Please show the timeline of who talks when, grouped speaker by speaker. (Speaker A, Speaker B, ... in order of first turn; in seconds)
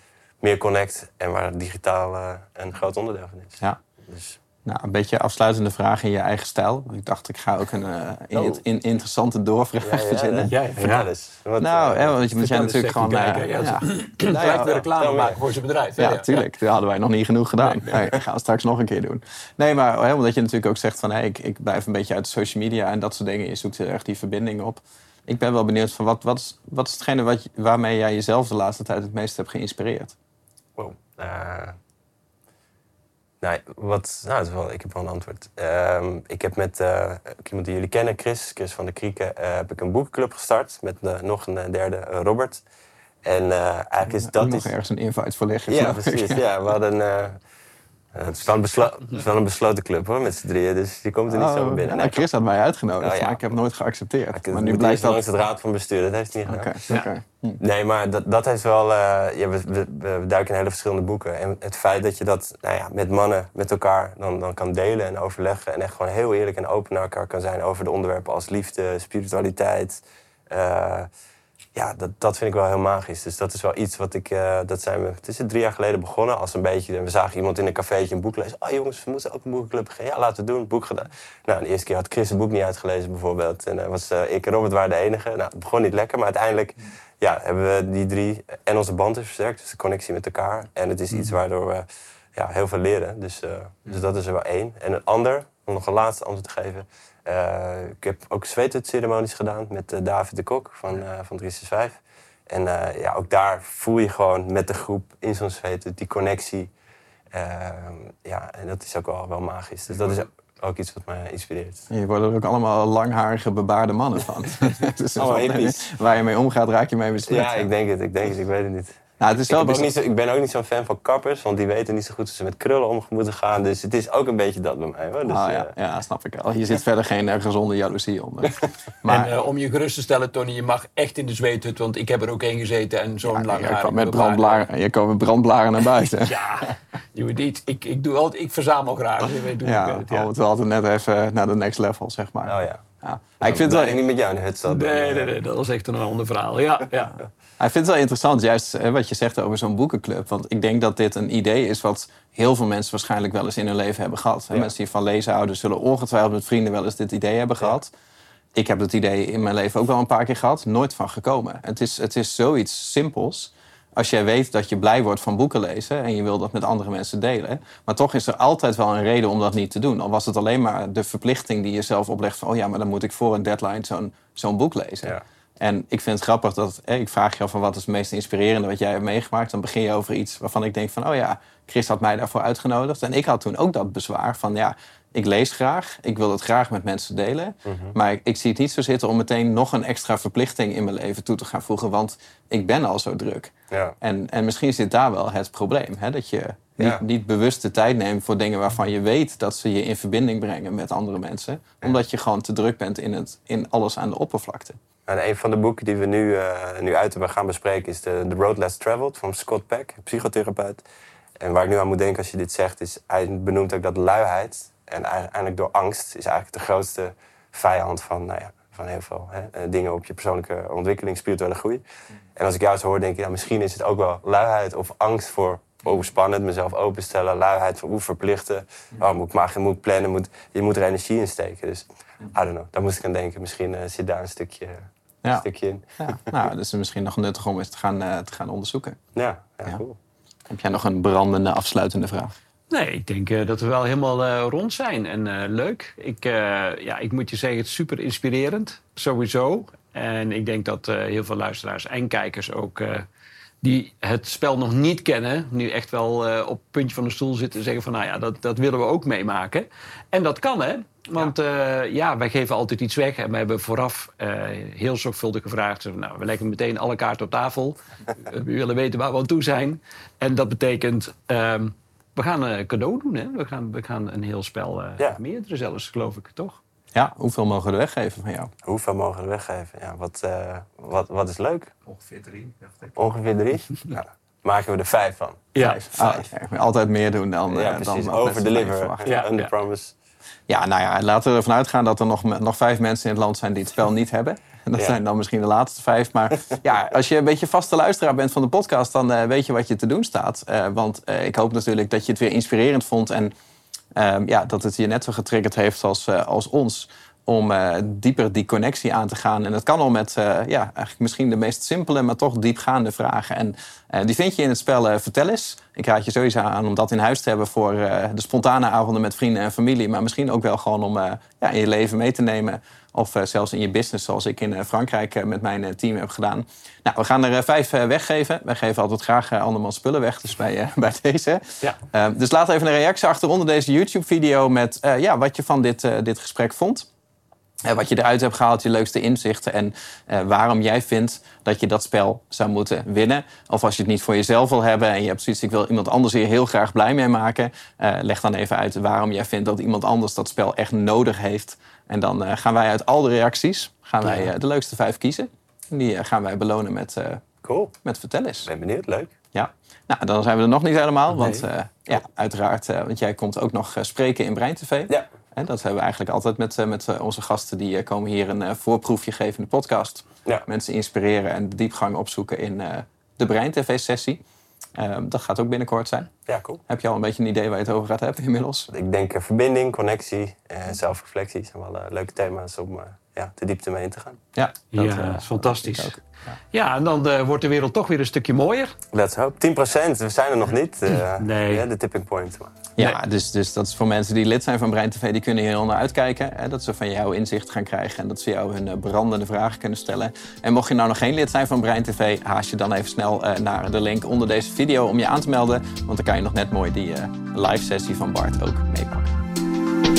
Speaker A: 0.4-4.4, 8.3-8.6, 9.8-12.2, 14.3-15.4, 30.8-31.7, 33.4-42.6, 43.2-44.7, 45.7-47.4, 48.1-52.3, 53.0-53.4, 54.3-56.7, 57.6-71.1, 71.7-102.0, 102.5-106.7, 107.3-111.9, 115.2-115.9, 117.3-125.7, 142.4-142.8, 143.4-145.3, 187.6-187.9, 193.7-193.9, 205.1-210.8, 211.4-221.8, 222.3-236.3, 239.1-240.0, 278.6-281.7, 282.9-286.2, 287.5-289.9, 357.4-357.7, 358.4-359.1, 376.3-376.6, 378.7-384.2, 388.9-392.6
Speaker B: 4.6-10.5, 11.6-14.8, 16.0-30.1, 44.2-46.4, 51.3-55.2, 56.5-57.6, 111.9-117.7, 119.2-119.9, 125.3-129.3, 133.2-136.4, 139.6-144.0, 147.6-157.9, 158.5-204.8, 236.0-239.0, 240.5-242.3, 276.9-278.5, 285.6-289.1, 290.5-303.3, 303.9-336.9, 337.6-357.2, 357.8-358.5, 359.3-374.2, 374.8-376.1, 376.7-378.7, 384.3-386.0, 392.8-409.1
Speaker C: 10.5-11.1, 12.4-16.5, 17.6-18.0, 129.1-134.6, 135.9-140.3, 144.7-147.2, 242.7-253.1, 253.6-276.6, 285.5-285.8, 289.0-289.5, 361.2-361.4, 384.7-386.0, 386.5-388.7, 391.0-391.6